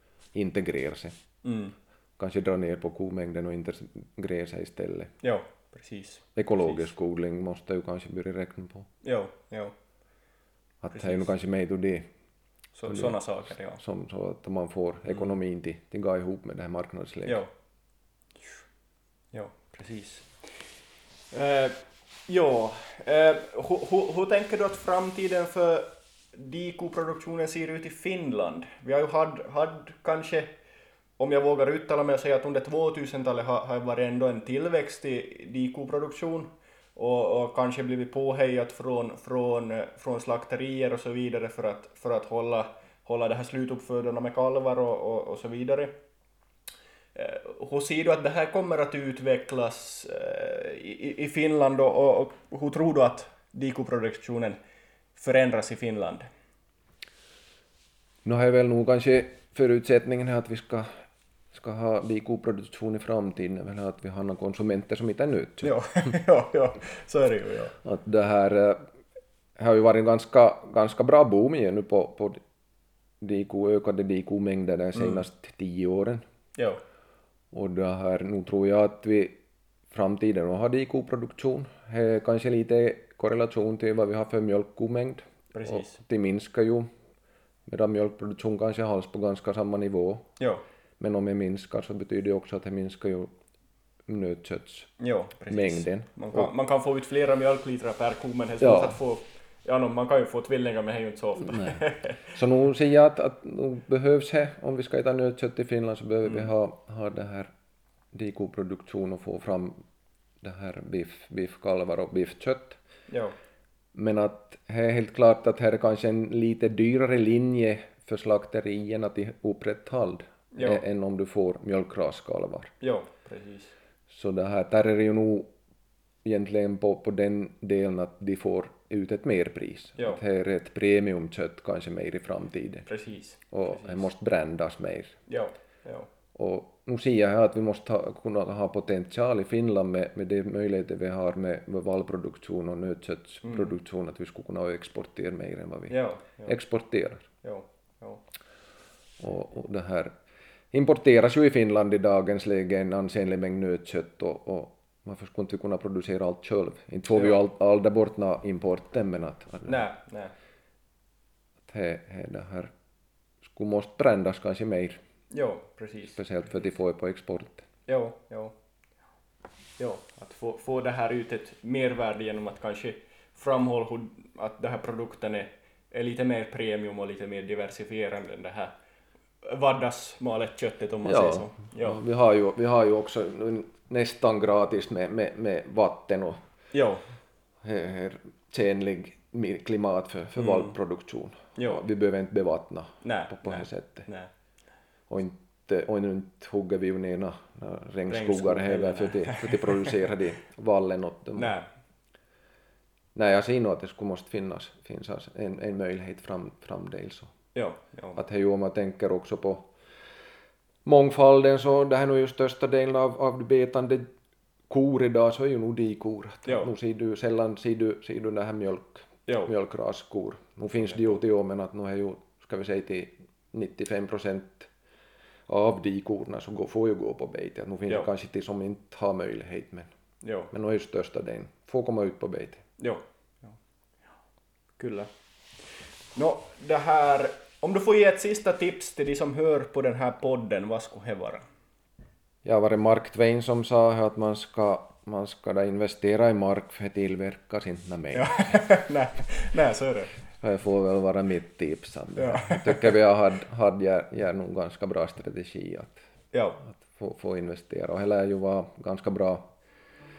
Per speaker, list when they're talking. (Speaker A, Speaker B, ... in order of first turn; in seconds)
Speaker A: 0.3-1.1, 2.2-5.1, 6.4-8.9, 10.8-12.1, 12.9-13.2, 13.8-17.4, 58.2-60.9, 61.5-65.7, 67.8-68.8, 69.6-72.4, 73.2-76.2, 77.5-79.4, 79.9-86.9, 87.7-90.3, 91.0-93.3, 94.1-94.9, 95.5-96.5, 98.6-99.0, 101.4-107.5, 108.1-109.8, 110.4-112.8, 113.9-122.7, 124.1-125.5, 126.2-132.9, 133.5-135.2, 136.3-147.3, 149.2-150.1, 150.7-159.8, 161.7-162.7, 163.4-165.0, 166.2-167.7, 181.0-186.4, 187.6-194.1, 195.1-201.6, 203.2-207.3, 208.2-209.7, 210.8-214.1, 214.7-224.7, 225.5-229.9, 230.5-232.6, 242.4-248.6, 250.4-256.0, 256.6-259.5
Speaker B: 1.4-1.8, 5.2-6.9, 9.0-9.7, 10.9-11.3, 12.8-13.8, 19.3-20.4, 21.3-30.5, 31.2-46.0, 47.1-54.6, 55.2-56.3, 65.6-67.8, 75.0-75.2, 85.5-86.0, 95.0-102.3, 106.2-106.5, 113.1-113.3, 120.5-120.8, 122.8-123.7, 132.9-134.0, 135.3-136.1, 143.4-143.7, 145.9-146.6, 147.4-148.2, 157.1-157.4, 159.7-160.3, 165.3-166.2, 167.9-168.5, 169.8-178.7, 179.4-182.0, 186.7-187.0, 190.4-190.8, 191.6-191.8, 193.0-194.3, 198.1-199.9, 201.4-201.7, 207.6-208.2, 216.4-216.7, 220.8-221.2, 230.2-230.5, 232.8-233.5, 234.8-235.1, 236.2-241.4, 248.1-250.2, 252.2-253.0, 256.3-256.6